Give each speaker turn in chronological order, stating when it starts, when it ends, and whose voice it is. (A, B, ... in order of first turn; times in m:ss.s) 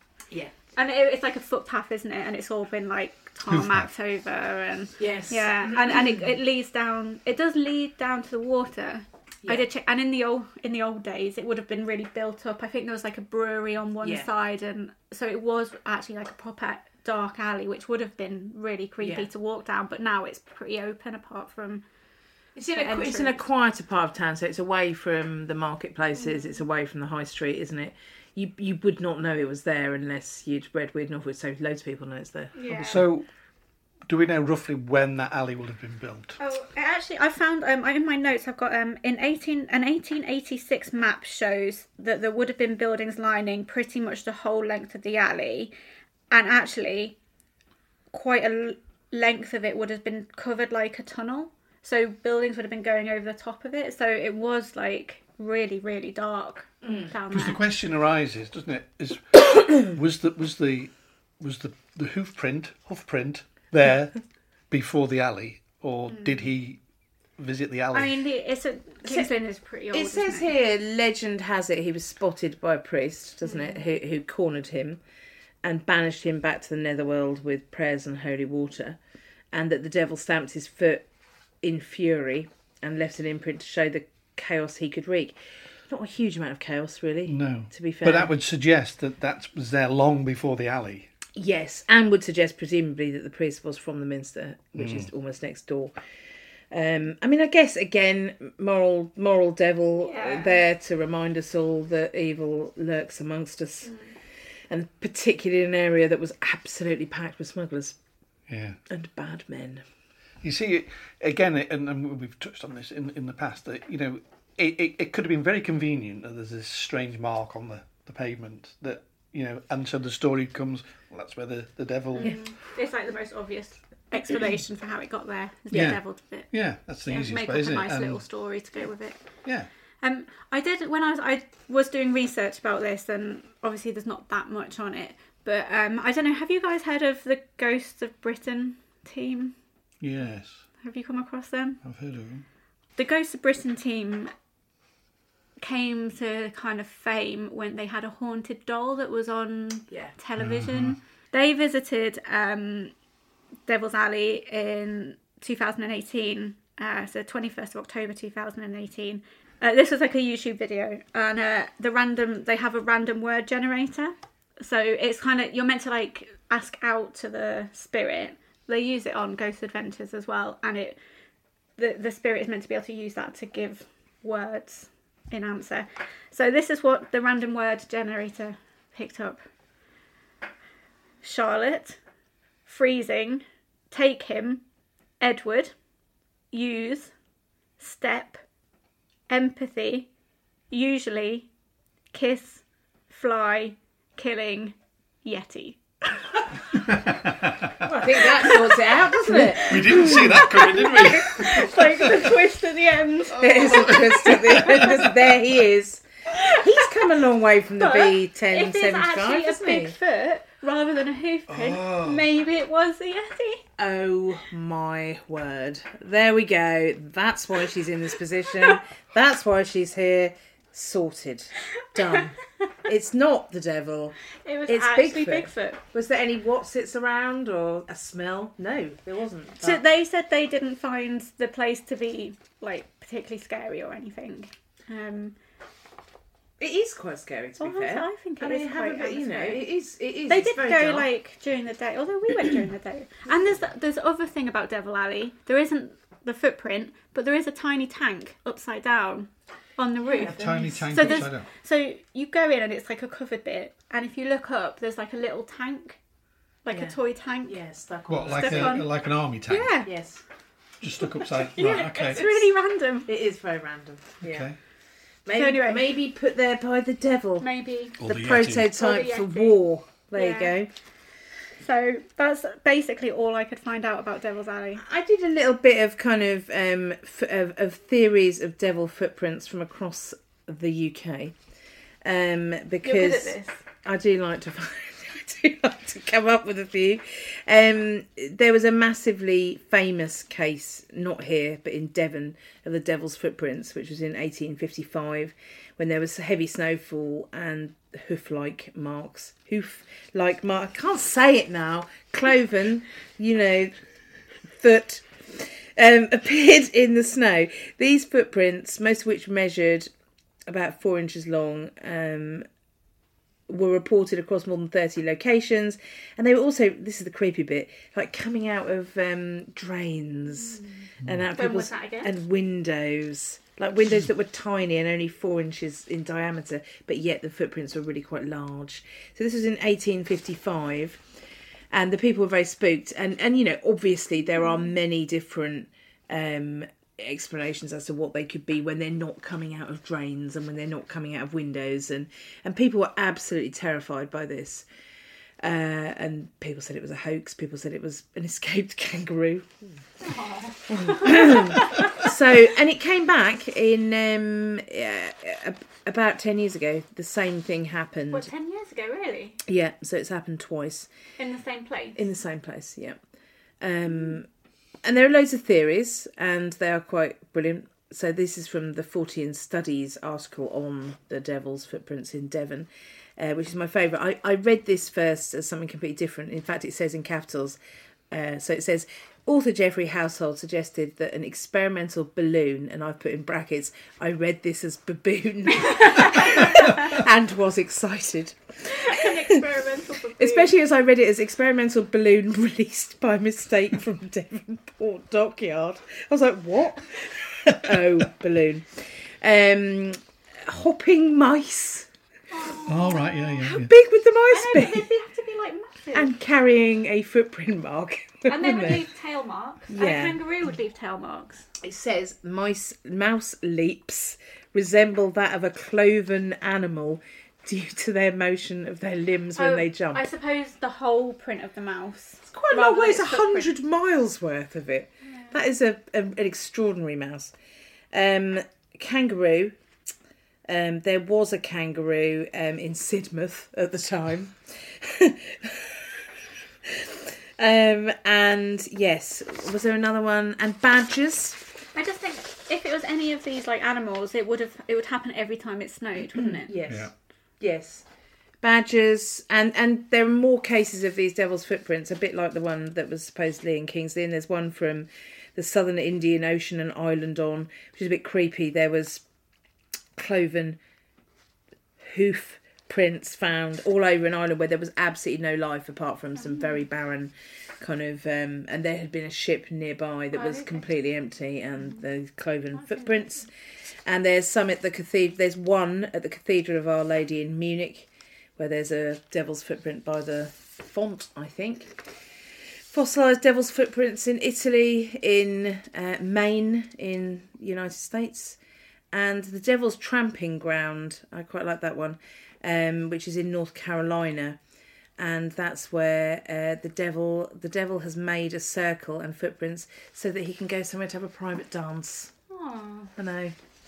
0:00.7-0:21.8 A
0:03.5-0:03.9 B
0:05.0-0:06.2 C
0:14.0-0:14.3 C
0:19.0-0:19.3 C
0:22.6-0:33.0 C
0:22.7-0:23.4 A
0:26.1-0:26.6 A
0:32.5-0:33.0 A
0:32.7-0:33.2 B
0:34.1-0:36.4 B
0:36.4-0:45.7 A
0:46.3-0:47.2 A
0:48.1-0:57.6 A
0:56.8-0:57.1 C
0:57.3-1:04.2 B
1:04.7-1:06.8 B
1:06.1-1:06.4 A
1:07.4-1:08.2 B
1:07.9-1:10.5 A
1:09.0-1:09.3 C
1:09.9-1:15.0 C
1:13.5-1:13.7 A
1:15.6-1:19.0 C
1:19.5-1:21.0 C
1:21.6-1:25.4 C
1:25.9-1:28.3 C
1:27.3-1:31.1 B
1:31.4-1:36.0 C
1:34.8-1:35.1 B
1:36.7-1:43.9 C
1:40.0-1:40.6 A
1:43.8-1:44.1 A
1:44.7-1:48.0 C
1:48.5-1:48.8 B
1:48.9-1:49.8 C
1:50.4-2:02.4 B
2:02.1-2:06.5 A
2:05.7-2:08.2 B
2:07.0-2:09.2 A
2:10.0-2:19.5 A
2:20.0-2:20.6 B
2:20.8-2:21.8 A
2:21.8-2:22.4 B
2:23.0-2:24.3 A
2:25.6-2:32.9 A
2:30.4-2:31.0 B
2:33.7-2:51.0 A
2:51.8-2:59.4 A
3:01.2-3:02.0 A
3:02.6-3:04.6 A
3:05.2-3:05.7 A
3:06.5-3:07.1 A
3:07.8-3:08.4 A
3:09.3-3:10.1 A
3:10.7-3:11.5 A
3:12.1-3:15.8 A
3:16.8-3:17.8 B
3:17.8-3:20.4 C
3:18.1-3:25.0 A
3:19.3-3:22.3 B
3:23.3-3:29.9 C
3:23.4-3:25.2 B
3:26.3-3:27.0 A
3:27.8-3:33.6 A
3:31.5-3:32.2 B
3:33.8-3:49.8 C
3:44.4-3:45.8 A
3:49.6-3:55.4 A
3:56.6-4:01.1 C
3:57.6-3:59.6 A
4:00.3-4:16.0 A
4:10.1-4:11.2 C
4:10.2-4:11.5 B
4:16.6-4:17.6 A
4:16.7-4:18.8 C
4:18.1-4:19.7 B
4:18.3-4:18.9 A
4:19.5-4:19.9 A
4:19.8-4:20.2 C
4:20.8-4:22.3 B
4:21.0-4:23.1 A
4:23.0-4:24.5 C
4:24.2-4:24.6 B
4:25.2-4:27.5 C
4:25.3-4:25.9 A
4:27.4-4:28.0 A
4:28.0-4:28.7 B
4:28.0-4:30.7 C
4:28.7-4:29.6 A
4:30.1-4:30.5 A
4:31.6-4:34.8 A
4:34.8-4:41.3 C
4:42.0-5:03.7 C
4:42.8-4:43.6 A
5:04.5-5:09.9 C
5:10.5-5:12.4 C
5:13.5-5:31.0 C
5:20.5-5:22.2 A
5:31.7-5:44.6 C
5:45.4-5:49.6 C
5:50.0-5:52.0 A
5:50.7-5:58.3 C
5:58.1-5:59.4 A
5:59.4-6:00.9 C
6:01.2-6:02.0 A
6:02.0-6:03.0 C
6:03.6-6:04.3 C
6:04.8-6:17.6 C
6:18.1-6:29.4 C
6:25.5-6:26.9 A
6:28.6-6:30.5 A
6:30.2-6:41.9 C
6:42.3-6:43.4 A
6:42.6-6:43.7 B
6:43.4-6:44.9 C
6:44.3-6:46.1 A
6:45.9-6:48.9 C
6:48.3-6:51.4 A
6:49.7-6:50.2 C
6:51.6-7:00.0 C
6:59.4-7:03.5 A
7:02.2-7:07.3 C
7:07.9-7:09.6 C
7:10.4-7:16.0 C
7:16.6-7:21.4 C
7:21.7-7:26.5 A
7:26.1-7:27.8 C
7:28.4-7:39.0 C
7:40.0-7:40.6 C
7:41.8-7:53.3 C
7:50.1-7:50.6 A
7:52.6-7:53.2 A
7:53.8-8:01.8 C
8:02.7-8:08.4 C
8:08.9-8:14.4 C
8:15.0-8:22.1 C
8:22.3-8:22.9 A
8:23.0-8:23.3 C